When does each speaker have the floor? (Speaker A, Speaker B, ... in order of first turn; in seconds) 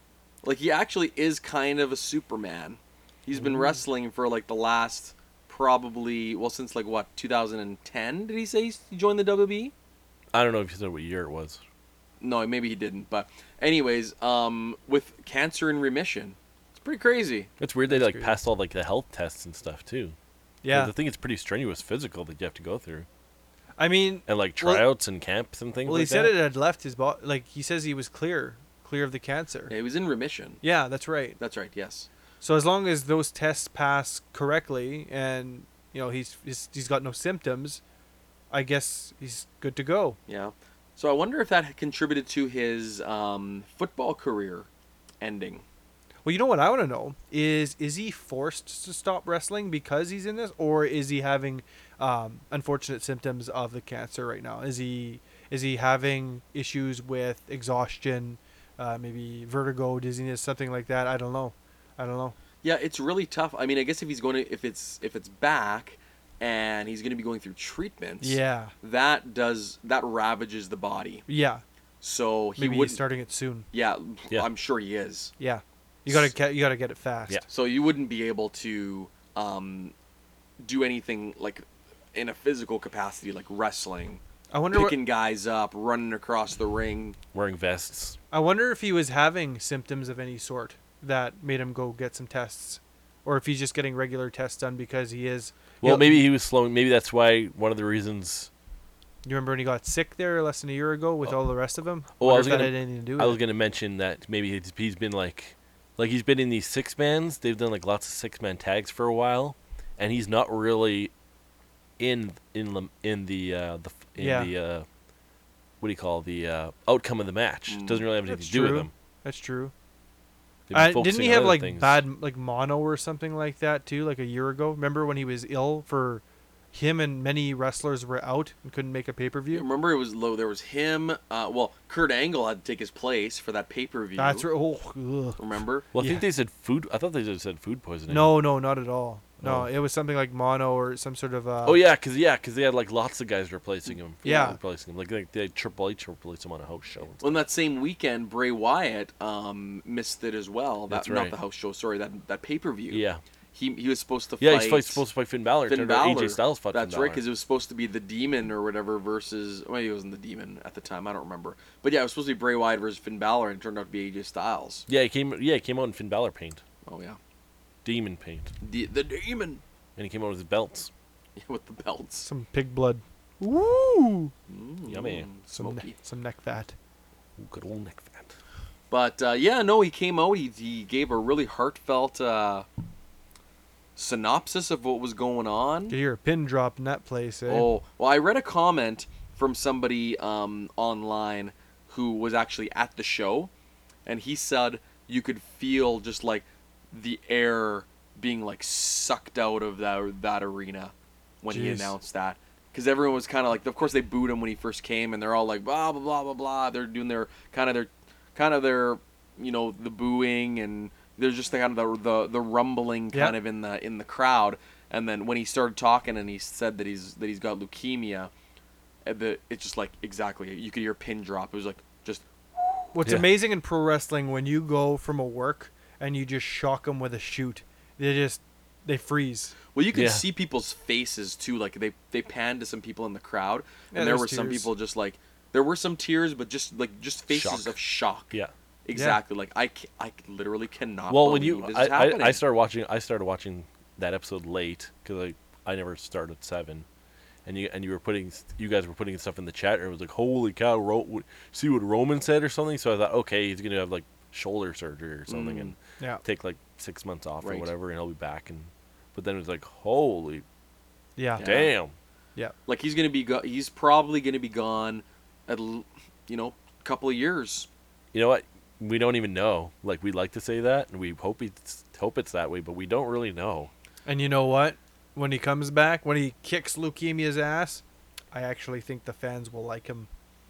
Speaker A: 0.4-9.7, 12.2-17.5, 29.7-30.6, 31.4-32.1, 40.3-44.7, 45.2-45.6, 62.6-71.2, 72.0-73.0, 73.7-75.3, 77.5-79.9, 80.6-84.2, 84.7-87.2, 117.7-118.0, 129.5-134.4, 135.4-135.9, 147.2-153.0, 153.5-155.0, 155.7-164.9, 166.8-167.2, 168.6-169.6, 171.4-172.3, 174.5-175.9, 178.9-182.7, 183.9-185.9, 187.5-193.5, 194.1-218.3, 219.1-222.9, 229.7-238.3, 238.8-242.4, 255.3-255.7, 257.4-257.7, 261.4-261.7, 262.7-267.7
Speaker B: 10.3-11.6, 17.6-20.2, 20.7-23.1, 24.3-26.3, 87.3-88.2, 95.8-98.5, 102.2-111.1, 112.0-114.9, 115.8-118.9, 120.7-122.0, 135.9-138.3, 139.4-139.7, 141.6-147.4, 150.9-151.4, 152.9-153.2, 154.4-157.2, 164.9-166.6, 167.8-168.5, 170.0-170.9, 174.9-175.3, 177.4-178.3, 229.9-230.2, 237.3-237.8, 241.1-246.9, 247.4-260.4, 261.4-261.9, 268.1-273.7
Speaker C: 17.9-18.4, 20.6-20.9, 23.8-24.9, 25.9-29.7, 30.6-31.4, 32.4-37.8, 38.5-40.2, 46.2-62.4, 68.2-68.7, 71.3-71.6, 72.6-73.6, 75.4-77.4, 84.5-85.0, 88.3-96.2, 99.2-103.4, 114.2-114.5, 118.3-119.7, 120.7-129.6, 134.2-136.2, 138.1-141.8, 144.2-144.6, 172.2-174.3, 175.5-176.7, 185.9-187.7, 201.5-201.9, 222.9-229.6, 233.9-234.7, 238.9-239.2, 261.2-261.5, 274.1-280.1